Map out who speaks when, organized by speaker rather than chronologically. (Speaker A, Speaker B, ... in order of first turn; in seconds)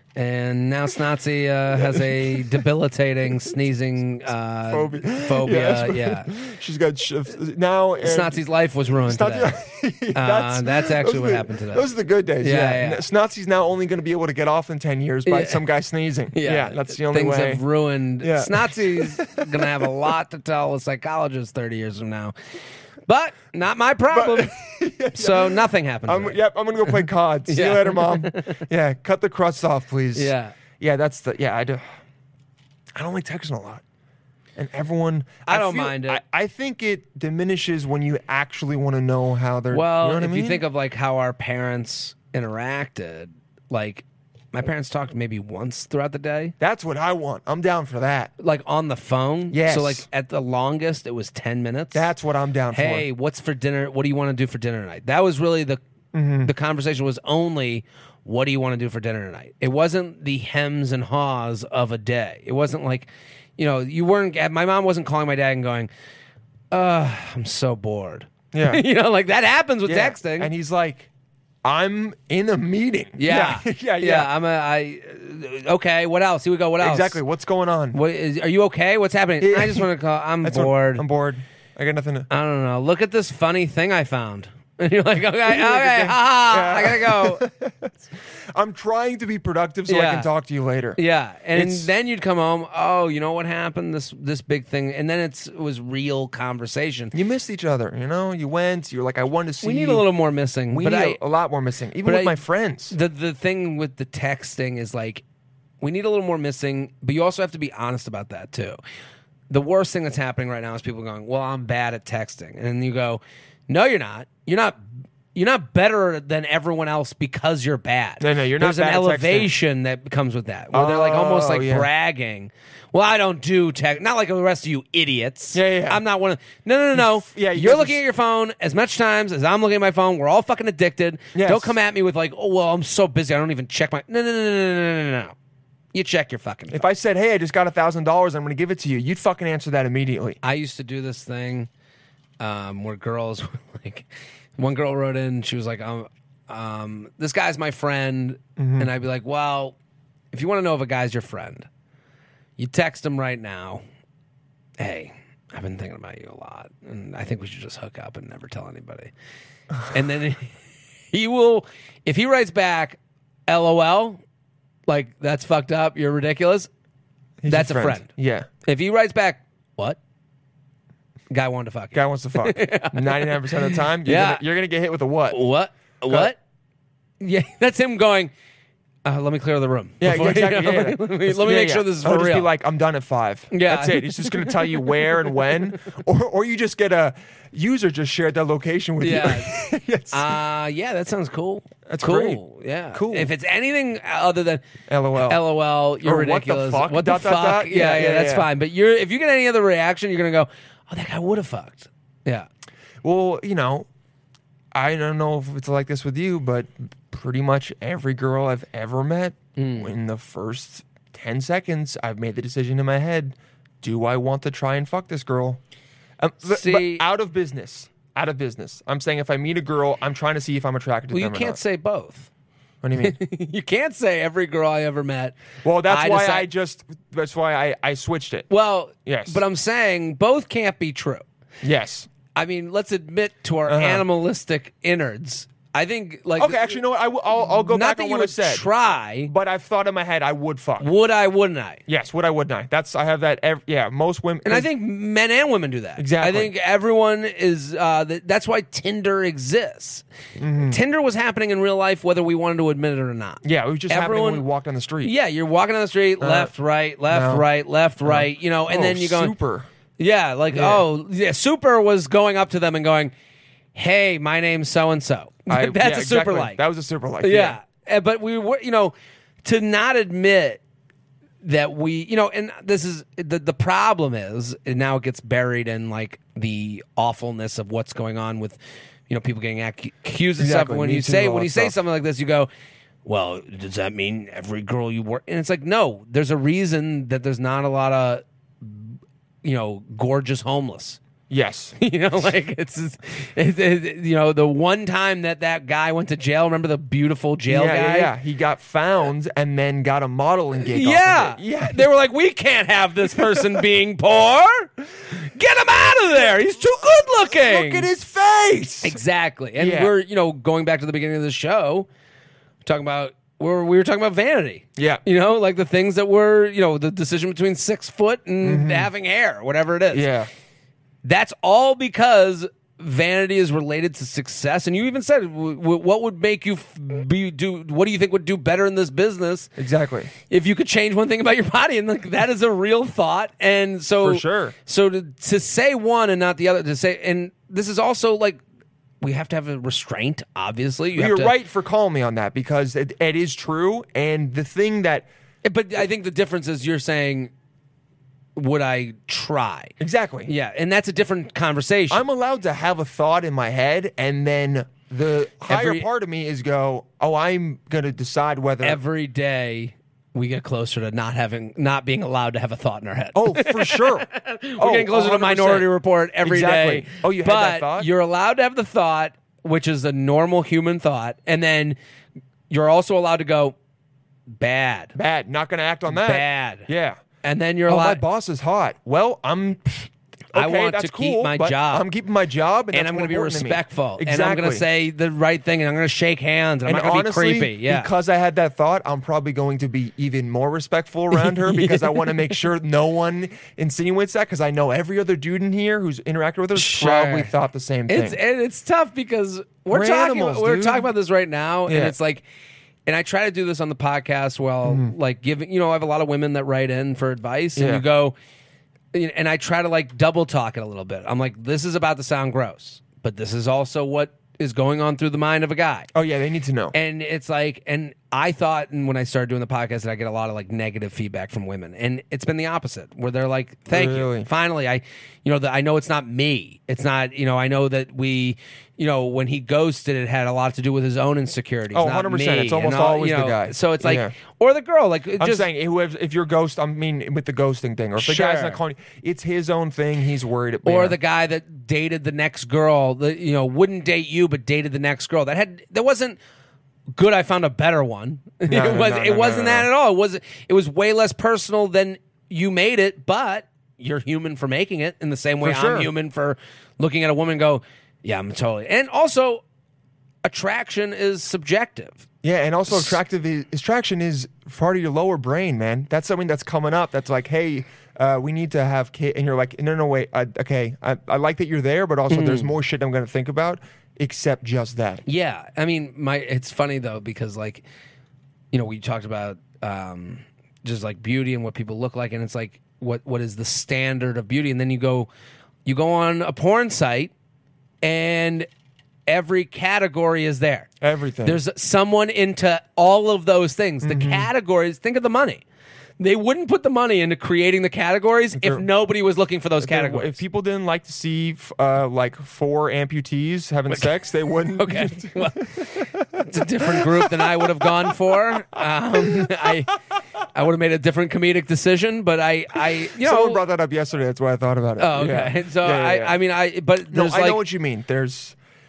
Speaker A: 0.2-6.3, 8.0-9.5, 10.2-11.9, 12.4-13.1, 15.3-15.6, 16.3-22.4, 23.1-24.5, 25.1-28.6, 30.1-30.6, 35.5-36.2, 39.7-46.5, 48.4-52.1, 52.7-55.8, 56.4-65.9, 66.7-70.5, 73.2-77.2, 77.9-81.0, 82.3-87.5, 89.9-90.3, 91.0-97.1, 99.6-101.2, 102.0-102.4, 102.9-105.2, 105.8-108.8, 109.5-135.3, 135.9-136.8, 140.4-141.7, 142.4-149.8, 150.3-151.7, 152.6-153.8, 154.8-159.1, 159.9-160.6, 161.1-164.2, 164.9-166.7, 167.5-168.1, 168.6-170.0, 171.3-174.4, 175.3-176.4, 177.2-178.3, 179.1-182.5, 183.5-185.5, 189.0-194.6, 195.2-202.5, 209.6-209.9, 216.5-217.1, 221.1-222.3, 223.0-226.5, 228.5-231.2, 232.3-236.8, 237.4-239.3, 240.8-241.8, 244.4-250.1, 250.6-254.4, 255.0-259.3, 260.0-263.1, 263.8-266.6, 267.2-270.6, 271.4-282.5, 283.1-291.0, 291.8-298.1, 300.6-307.9, 308.8-311.9, 312.6-320.1, 321.0-329.5, 330.2-338.4, 339.0-341.3, 345.4-347.3, 348.4-349.8, 350.3-352.1, 355.5-355.9, 358.6-371.8, 372.5-373.6, 374.3-374.9, 375.9-376.7, 377.2-378.0, 380.4-381.9, 382.7-387.9, 391.1-392.4, 396.6-397.3, 397.9-402.2, 402.9-408.1, 408.9-415.9, 416.7-435.5, 438.0-438.6, 440.6-446.2, 446.9-459.4, 460.2-462.1, 462.7-463.0, 472.1-472.5, 475.1-477.6, 478.5-485.1, 485.6-487.1, 487.8-488.5, 489.1-490.7, 491.2-495.4, 496.0-500.2, 503.7-504.0, 504.6-509.7, 510.3-513.4, 514.8-517.4
Speaker B: 1.9-2.6, 4.7-8.4, 9.1-17.6, 18.2-19.9, 24.1-31.9, 33.0-33.8, 34.6-40.6, 46.6-48.3, 49.5-50.1, 51.9-53.1, 56.1-56.5, 68.5-68.8, 69.8-71.1, 71.6-74.3, 76.8-78.0, 79.4-79.9, 80.4-82.3, 85.5-87.9, 88.5-91.0, 91.5-91.9, 97.1-100.0, 100.7-103.0, 118.2-119.5, 120.7-121.9, 125.5-126.0, 126.9-128.0, 131.3-131.8, 136.7-140.4, 148.6-148.9, 167.4-168.5, 171.9-175.4, 180.0-190.4, 191.9-193.3, 194.9-195.4, 196.0-198.5, 203.0-203.9, 204.7-215.6, 216.2-221.6, 222.8-223.2, 225.6-228.5, 229.1-229.4, 231.6-232.1, 233.7-234.0, 236.4-238.7, 239.2-240.9, 241.9-244.7, 246.0-246.5, 250.4-250.8, 253.4-255.1, 256.2-256.5, 257.1-257.5, 258.0-259.7, 260.5-260.8, 265.5-267.6, 280.4-281.8, 291.3-291.8, 297.5-301.9, 306.6-309.0, 309.6-309.9, 314.8-315.0, 318.4-318.9, 319.9-320.3, 329.6-330.1, 334.0-334.6, 340.9-345.1, 349.8-350.3, 351.9-358.8, 363.1-365.7, 366.2-367.9, 374.9-377.0, 377.7-384.6, 386.7-398.2, 399.7-400.9, 401.7-401.9, 404.6-404.9, 407.6-407.8, 415.9-416.8, 423.7-424.3, 431.7-434.1, 435.2-441.0, 448.5-449.7, 455.4-455.9, 462.2-475.0, 490.8-491.4, 493.8-494.3, 498.4-498.6, 499.6-509.5, 513.0-516.2, 516.9-518.4